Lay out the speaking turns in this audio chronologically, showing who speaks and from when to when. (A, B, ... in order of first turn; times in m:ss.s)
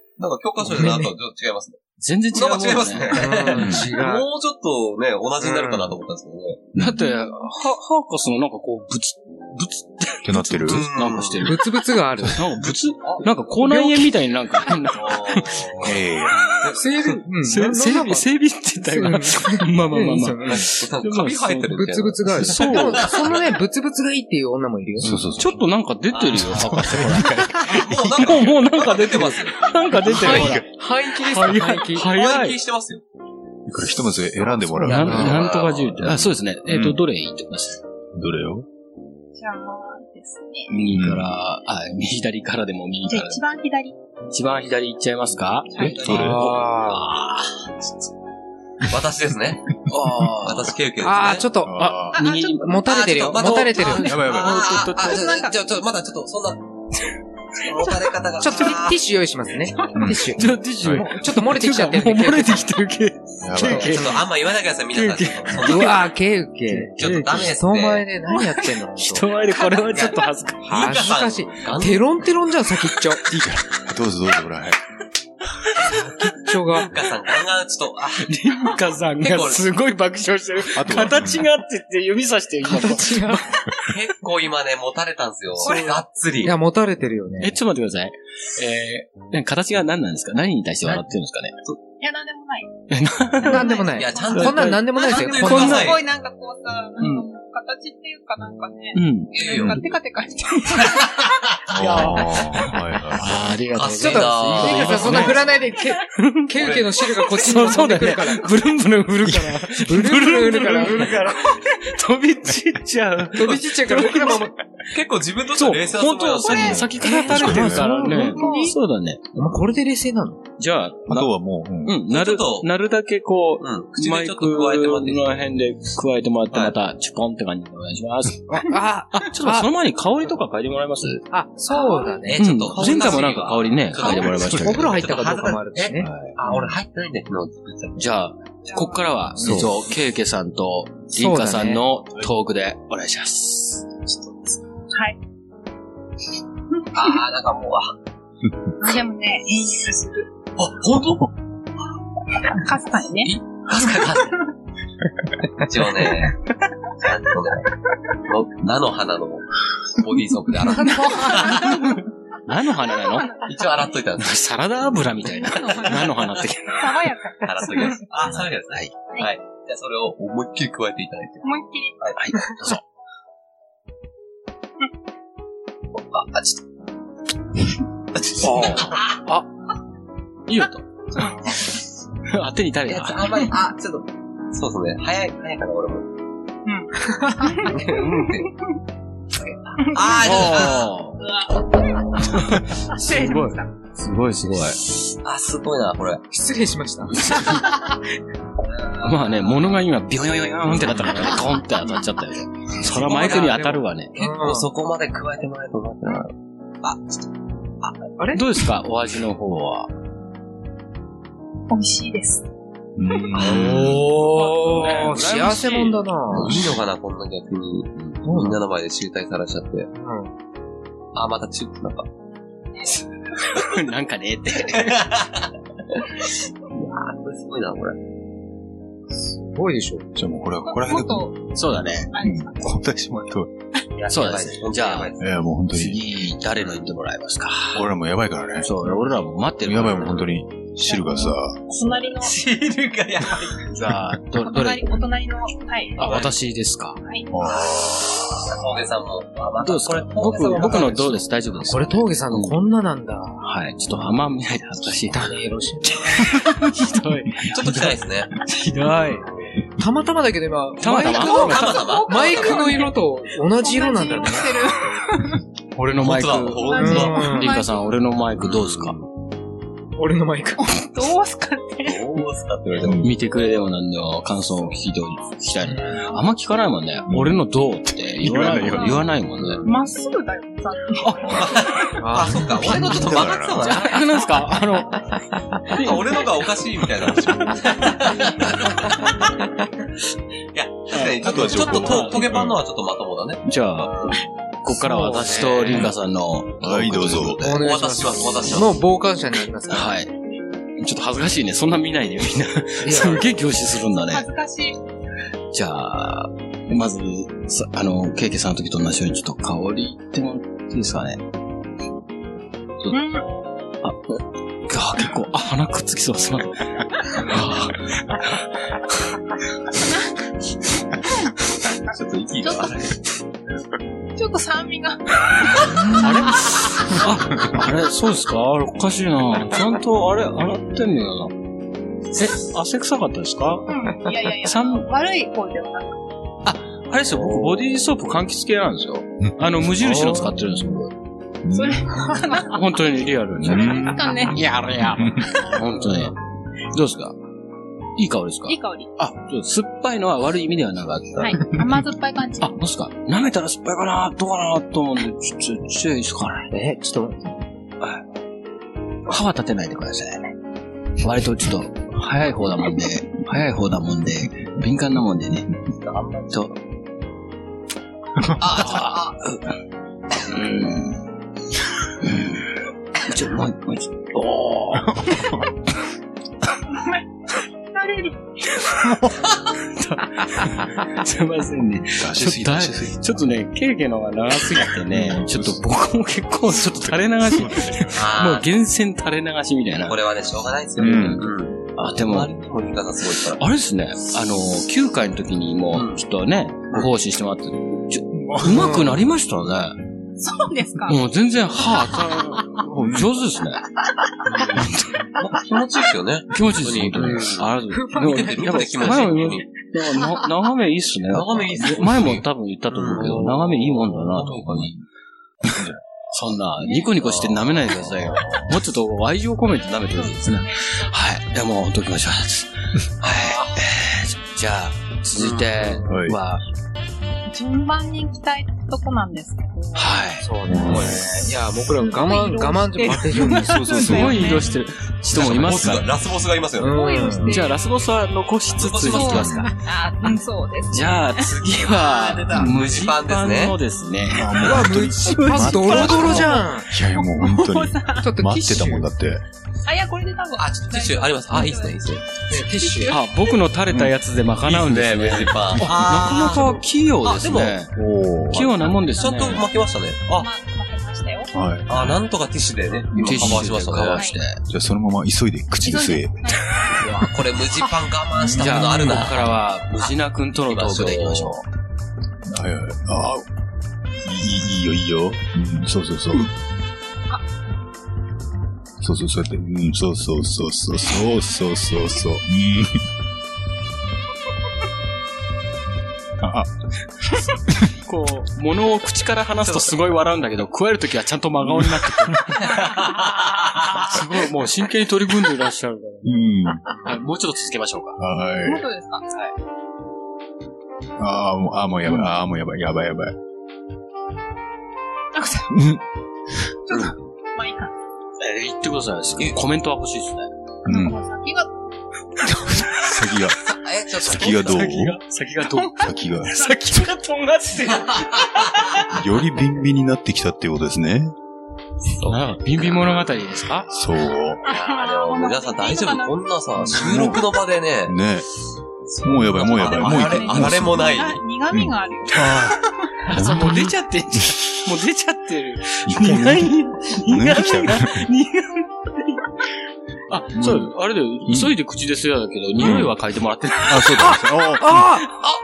0:00.2-0:01.8 A
0:00.7-0:01.1 B
0:02.0-0:03.2 C
0:02.3-0:06.7 A
0:03.1-0:04.2 B
0:03.5-0:03.9 D
0:05.4-0:05.9 B
0:06.7-0:07.0 D
0:06.8-0:11.7 C
0:10.2-0:10.9 D
0:10.7-0:11.5 A
0:11.4-0:12.4 B
0:12.3-0:15.9 C
0:13.0-0:13.4 A
0:13.6-0:14.1 B
0:14.9-0:15.9 A
0:15.8-0:16.4 D
0:16.6-0:16.9 A
0:16.8-0:20.6 B
0:17.4-0:21.8 C
0:20.4-0:23.4 A
0:21.7-0:25.2 B
0:22.3-0:23.2 C
0:25.0-0:25.6 D
0:25.0-0:27.4 C
0:26.1-0:26.6 A
0:26.4-0:28.5 D
0:27.6-0:29.7 A
0:28.1-0:32.6 C
0:29.9-0:30.6 D
0:30.1-0:32.1 B
0:32.0-0:33.0 A
0:33.7-0:37.0 D
0:34.7-0:36.1 A
0:34.8-0:37.8 C
0:38.1-0:38.6 D
0:39.3-0:40.7 E
0:40.7-0:43.4 C
0:40.9-0:41.3 D
0:43.1-0:44.0 E
0:44.3-0:47.5 C
0:45.7-0:46.2 E
0:45.8-0:46.4 D
0:46.0-0:47.1 B
0:48.9-0:49.8 A
0:49.9-0:50.7 C
0:50.4-0:51.4 A
0:51.0-0:51.9 B
0:51.6-0:52.2 D
0:51.8-0:52.8 C
0:52.1-0:52.5 E
0:52.6-0:54.2 B
0:52.8-0:56.6 A
0:53.3-0:55.3 C
0:53.8-0:54.2 E
0:54.0-0:54.6 D
0:55.0-0:55.5 E
0:57.6-0:59.0 A
0:58.4-1:02.7 B
0:59.9-1:01.1 D
1:00.4-1:04.2 C
1:03.4-1:04.0 D
1:03.6-1:04.0 B
1:03.8-1:06.1 A
1:04.9-1:06.1 C
1:05.6-1:06.9 B
1:06.7-1:07.5 C
1:07.0-1:08.1 A
1:07.4-1:09.3 B
1:09.0-1:10.7 C
1:09.9-1:12.2 A
1:10.7-1:13.2 B
1:13.3-1:14.8 D
1:15.8-1:16.9 B
1:16.6-1:18.3 A
1:18.2-1:23.6 C
1:19.2-1:19.6 A
1:20.7-1:21.5 D
1:22.6-1:23.5 B
1:23.8-1:26.6 A
1:25.6-1:27.5 B
1:25.6-1:26.0 E
1:27.4-1:31.5 C
1:32.0-1:32.8 E
1:32.9-1:33.8 C
1:33.4-1:41.2 E
1:33.4-1:36.0 B
1:33.8-1:36.0 A
1:34.3-1:36.0 C
1:37.0-1:37.2 C
1:38.9-1:39.3 C
1:39.3-1:39.8 A
1:39.5-1:39.8 D
1:40.7-1:41.6 A
1:41.7-1:43.4 D
1:41.8-1:45.5 C
1:43.7-1:45.6 A
1:44.0-1:48.5 B
1:46.1-1:54.5 C
1:46.6-1:47.0 A
1:49.2-1:51.4 B
1:53.3-1:54.5 B
1:54.0-1:54.4 A
1:54.9-1:56.9 A
1:55.6-1:59.2 C
1:56.5-1:56.8 E
1:56.5-1:57.9 D
1:57.0-1:58.7 B
1:58.0-1:58.7 E
1:59.3-2:00.4 B
2:00.6-2:01.3 C
2:01.1-2:02.0 D
2:01.8-2:08.6 C
2:02.1-2:02.7 A
2:03.6-2:05.3 A
2:06.5-2:06.8 A
2:08.5-2:09.7 B
2:09.1-2:11.2 C
2:11.3-2:13.1 B
2:11.7-2:18.2 A
2:11.8-2:12.2 E
2:12.4-2:15.0 C
2:14.0-2:16.1 B
2:16.0-2:16.3 C
2:18.0-2:23.9 C
2:18.7-2:18.9 E
2:19.4-2:19.7 B
2:21.1-2:21.8 B
2:24.0-2:24.5 A
2:24.9-2:25.2 E
2:26.9-2:27.9 A
2:28.8-2:30.2 E
2:30.6-2:31.3 A
2:32.5-2:33.3 E
2:33.2-2:34.4 A
2:35.6-2:36.4 A
2:37.0-2:37.7 A
2:38.2-2:42.0 A
2:40.8-2:41.9 E
2:40.9-2:41.5 B
2:42.4-2:43.3 C
2:43.0-2:43.7 E
2:43.4-2:44.4 A
2:44.2-2:47.0 C
2:45.2-2:48.0 E
2:47.4-2:51.5 A
2:48.2-2:48.9 C
2:51.4-2:52.0 E
2:52.2-2:52.8 C
2:56.1-2:56.4 A
2:58.4-2:59.5 C
2:58.7-2:59.2 A
3:00.5-3:00.8 C
3:01.1-3:01.6 E
3:02.3-3:03.4 C
3:02.9-3:06.1 A
3:06.6-3:08.5 E
3:07.6-3:08.5 A
3:09.8-3:10.3 E
3:09.9-3:10.9 A
3:10.2-3:11.2 C
3:11.2-3:13.7 E
3:12.2-3:14.8 C
3:15.2-3:16.2 A
3:16.3-3:18.0 B
3:17.1-3:17.6 C
3:19.0-3:24.1 C
3:20.8-3:21.2 D
3:22.8-3:27.0 A
3:23.1-3:24.7 B
3:28.3-3:29.9 C
3:31.7-3:32.4 E
3:33.0-3:34.0 D
3:33.4-3:34.0 A
3:33.4-3:36.7 B
3:34.2-3:36.7 C
3:36.3-3:39.9 A
3:38.2-3:38.6 B
3:39.9-3:40.3 B
3:41.1-3:42.1 A
3:43.3-3:45.1 C
3:44.7-3:45.5 A
3:46.2-3:48.0 A
3:49.3-3:50.0 B
3:50.1-3:51.3 D
3:50.6-3:51.4 E
3:51.5-3:52.1 C
3:52.1-3:52.7 E
3:52.1-3:53.5 D
3:54.0-3:55.3 A
3:54.1-3:55.1 C
3:55.2-3:56.1 D
3:55.7-3:57.8 C
3:57.7-3:59.1 D
3:58.6-4:00.3 C
3:59.6-4:01.6 D
4:01.7-4:02.4 E
4:02.2-4:03.7 A
4:03.7-4:04.9 C
4:04.4-4:06.2 E
4:06.0-4:07.0 C
4:06.0-4:06.3 A
4:07.0-4:07.3 E
4:07.3-4:08.2 D
4:07.4-4:11.2 A
4:09.6-4:12.6 C
4:11.7-4:13.4 B
4:13.4-4:15.3 C
4:15.1-4:16.4 B
4:16.1-4:19.2 C
4:17.4-4:18.3 A
4:19.8-4:24.6 B
4:20.8-4:21.9 C
4:21.0-4:22.8 A
4:21.2-4:23.0 E
4:23.5-4:25.4 E
4:25.7-4:28.9 C
4:25.9-4:27.3 A
4:26.6-4:27.9 E
4:26.8-4:27.5 B
4:28.4-4:29.1 A
4:30.0-4:30.7 B
4:30.6-4:32.2 E
4:31.8-4:33.1 A
4:32.8-4:33.1 D
4:33.0-4:39.6 C
4:35.6-4:36.0 B
4:37.1-4:37.4 D
4:38.2-4:39.0 D
4:38.6-4:39.0 E
4:39.6-4:41.8 E
4:41.3-4:44.1 A
4:42.0-4:43.2 B
4:42.5-4:43.8 D
4:43.6-4:45.1 C
4:45.7-4:46.2 C
4:45.7-4:49.4 A
4:48.3-4:48.7 C
4:50.5-4:54.2 A
4:50.9-4:52.3 C
4:51.2-4:52.6 D
4:53.4-4:57.3 C
4:54.7-4:55.9 B
4:56.6-4:57.6 D
4:57.0-4:58.8 A
4:57.4-4:59.9 B
4:59.7-5:00.1 C
5:00.8-5:04.2 C
5:02.8-5:03.3 B
5:03.9-5:04.8 E
5:05.5-5:11.2 C
5:12.9-5:13.2 E
5:13.8-5:16.6 C
5:17.1-5:18.5 C
5:21.9-5:23.0 A
5:22.4-5:22.9 E
5:24.1-5:25.8 E
5:25.7-5:31.3 C
5:32.2-5:33.7 C
5:33.7-5:36.0 E
5:34.4-5:34.8 C
5:36.4-5:40.9 C
5:39.8-5:40.6 B
5:41.4-5:42.1 D
5:41.5-5:42.7 E
5:42.4-5:46.1 C
5:43.4-5:44.4 D
5:43.6-5:44.4 E
5:44.9-5:45.2 D
5:46.7-5:47.2 C
5:48.0-5:51.6 C
5:48.4-5:48.9 E
5:51.2-5:52.6 E
5:52.4-5:56.5 C
5:56.5-5:57.3 B
5:59.1-6:00.3 C
6:01.0-6:05.5 C
6:05.8-6:06.6 A
6:08.4-6:09.4 C
6:08.4-6:09.1 A
6:10.2-6:11.0 C
6:12.0-6:15.2 C
6:14.9-6:15.4 D
6:17.7-6:18.2 E
6:18.6-6:30.0 C
6:22.0-6:23.2 D
6:24.8-6:25.7 D
6:26.5-6:28.0 D
6:27.9-6:28.4 A
6:29.8-6:33.4 A
6:30.8-6:31.2 D
6:31.8-6:32.3 C
6:33.4-6:39.8 C
6:35.7-6:36.0 A
6:38.1-6:38.9 D
6:40.2-6:41.0 E
6:40.9-6:43.6 C
6:41.9-6:42.4 E
6:42.8-6:43.1 D
6:44.4-6:45.1 C
6:45.2-6:49.5 A
6:46.3-6:54.8 C
6:47.7-6:48.6 B
6:51.1-6:54.7 A
6:55.5-6:55.8 D
6:56.1-7:06.4 C
6:56.6-6:56.9 E
6:57.0-6:58.6 A
6:59.9-7:01.0 E
7:03.0-7:03.5 A
7:05.2-7:05.8 A
7:05.9-7:06.2 D
7:07.3-7:10.1 E
7:09.7-7:10.9 C
7:10.2-7:13.6 B
7:10.5-7:11.1 D
7:11.3-7:14.6 E
7:13.1-7:14.4 D
7:13.8-7:15.9 C
7:15.1-7:16.8 A
7:16.6-7:17.3 B
7:16.7-7:17.6 E
7:17.3-7:19.5 C
7:18.5-7:19.5 A
7:18.9-7:22.5 E
7:20.7-7:26.2 C
7:22.4-7:23.6 A
7:24.1-7:29.2 D
7:24.4-7:26.7 B
7:25.6-7:28.0 E
7:28.0-7:28.9 B
7:29.6-7:33.4 E
7:30.4-7:32.1 A
7:32.3-7:33.0 B
7:32.9-7:37.7 C
7:34.4-7:37.6 A
7:37.7-7:38.5 D
7:38.3-7:39.4 C
7:38.3-7:40.3 A
7:38.8-7:39.6 E
7:40.1-7:41.3 E
7:41.3-7:42.0 D
7:41.7-7:44.1 A
7:43.0-7:44.4 C
7:43.1-7:43.4 D
7:43.8-7:44.2 E
7:44.5-7:46.2 D
7:45.6-7:46.9 E
7:47.0-7:51.4 A
7:48.2-7:49.0 D
7:48.3-7:51.4 C
7:52.2-7:53.2 D
7:54.0-7:56.3 D
7:58.8-8:02.8 D
8:06.2-8:06.5 D
8:07.8-8:13.0 C
8:11.4-8:12.4 D
8:12.8-8:13.9 A
8:13.6-8:16.1 C
8:16.0-8:16.9 D
8:16.7-8:18.0 C
8:18.0-8:18.7 D
8:18.4-8:19.3 E
8:21.0-8:23.2 D
8:25.1-8:25.6 E
8:25.5-8:25.8 D
8:26.7-8:27.7 E
8:28.2-8:30.3 C
8:30.6-8:31.0 D
8:30.7-8:31.5 E
8:32.5-8:35.0 D
8:33.6-8:34.7 A
8:34.1-8:38.9 C
8:35.8-8:36.9 D
8:37.9-8:38.4 A
8:38.9-8:41.1 D
8:42.0-8:43.7 C
8:43.7-8:44.4 D
8:44.4-8:46.4 E
8:44.5-8:48.0 A
8:46.7-8:47.3 D
8:47.8-8:48.3 D
8:48.9-8:51.2 A
8:49.0-8:50.9 D
8:49.5-8:52.5 E
8:51.5-8:54.4 D
8:53.0-8:59.2 C
8:55.8-8:58.1 D
9:00.1-9:04.1 C
9:00.3-9:00.7 D
9:01.2-9:01.5 D
9:02.6-9:02.9 D
9:03.6-9:05.1 D
9:04.0-9:05.2 B